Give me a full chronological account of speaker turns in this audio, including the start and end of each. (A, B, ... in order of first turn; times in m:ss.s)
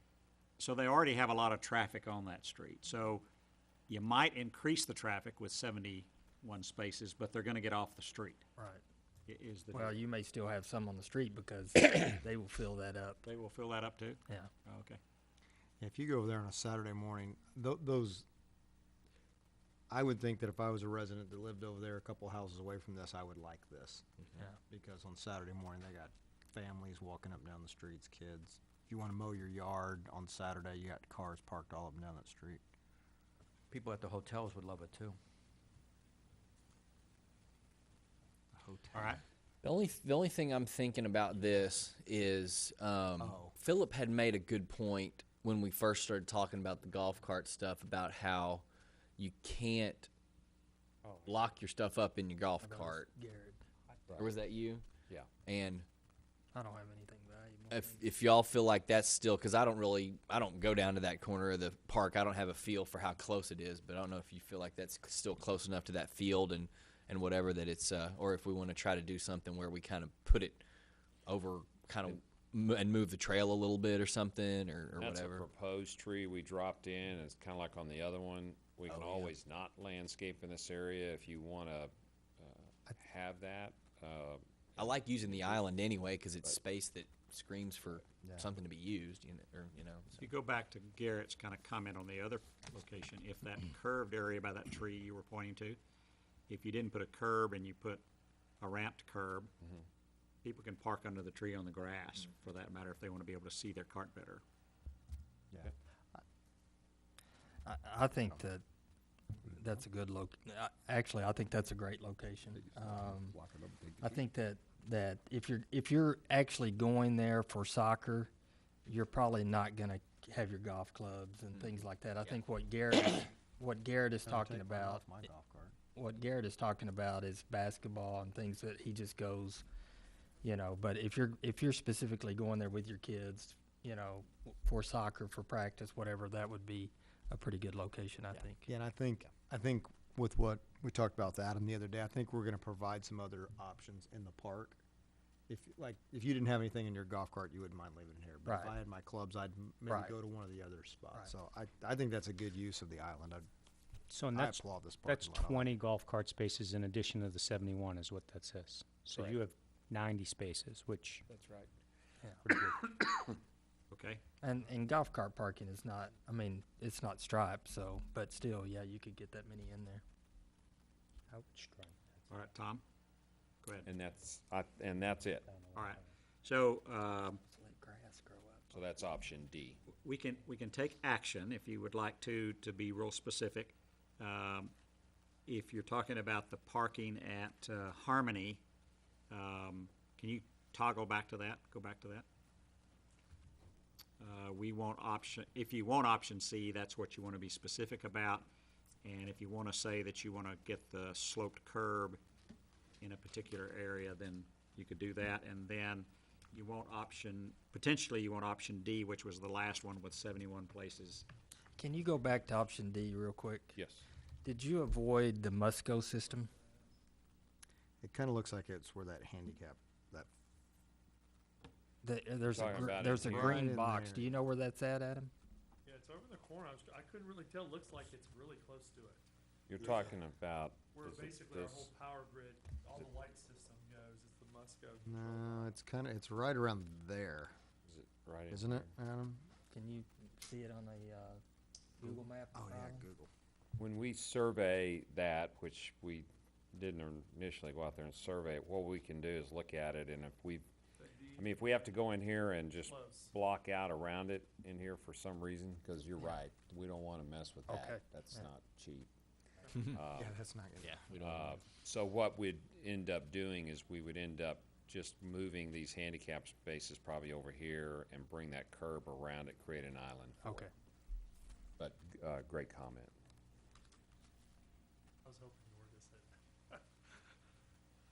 0:00.6-0:03.3 A
0:03.9-0:08.4 A
0:08.6-0:08.8 B
0:09.3-0:10.0 A
0:09.7-0:13.2 B
0:13.2-0:15.0 A
0:15.8-0:18.2 C
0:19.9-0:24.1 C
0:24.7-0:32.6 C
0:33.7-0:35.2 D
0:38.6-0:39.1 D
0:38.9-0:39.2 A
0:39.6-0:48.6 E
0:43.2-0:43.5 C
0:49.2-0:50.1 E
0:51.3-0:53.1 E
0:52.6-0:53.6 B
0:54.2-0:54.8 E
0:55.4-0:55.9 E
0:56.5-0:58.1 B
0:57.7-1:10.6 E
1:11.3-1:15.4 E
1:15.0-1:25.6 F
1:18.9-1:19.3 E
1:24.8-1:30.2 E
1:30.2-1:35.8 A
1:36.5-1:38.0 A
1:38.6-1:39.5 A
1:40.4-1:44.4 A
1:45.5-1:46.2 C
1:47.6-1:48.6 B
1:49.4-1:53.4 B
1:52.6-1:54.2 C
1:54.0-1:58.3 B
1:58.9-2:05.0 B
2:04.2-2:05.8 C
2:05.9-2:09.6 B
2:10.4-2:18.7 B
2:18.7-2:24.8 C
2:25.5-2:33.5 C
2:28.4-2:28.8 B
2:29.9-2:30.1 B
2:34.1-2:41.2 G
2:34.3-2:35.8 C
2:42.4-2:42.8 G
2:43.9-2:44.2 A
2:44.4-2:50.0 B
2:51.3-2:51.9 B
2:52.3-2:52.8 A
2:53.6-2:53.9 A
2:53.8-2:55.5 F
2:55.8-2:57.4 A
2:57.5-2:58.9 B
2:58.7-2:59.8 F
3:00.0-3:04.7 A
3:05.5-3:08.6 A
3:09.3-3:12.2 A
3:14.2-3:18.5 A
3:19.0-3:22.2 A
3:23.0-3:31.2 A
3:31.8-3:33.8 B
3:33.7-3:34.0 F
3:34.4-3:36.5 B
3:38.0-3:40.3 C
3:42.0-3:45.3 B
3:42.5-3:43.6 F
3:43.2-3:44.3 C
3:45.8-3:49.2 H
3:49.7-3:51.9 F
3:49.8-3:50.1 H
3:50.9-3:55.8 H
3:55.0-3:57.6 C
3:57.9-3:58.9 F
3:58.5-3:59.5 C
3:59.7-4:01.4 B
4:02.0-4:03.1 B
4:02.0-4:03.3 C
4:03.8-4:10.7 F
4:11.0-4:11.5 H
4:11.4-4:19.1 F
4:12.9-4:13.3 H
4:17.7-4:18.4 B
4:19.9-4:20.4 F
4:20.0-4:21.0 C
4:20.8-4:21.6 E
4:21.2-4:30.7 F
4:30.4-4:30.7 B
4:31.8-4:33.1 F
4:35.2-4:36.8 H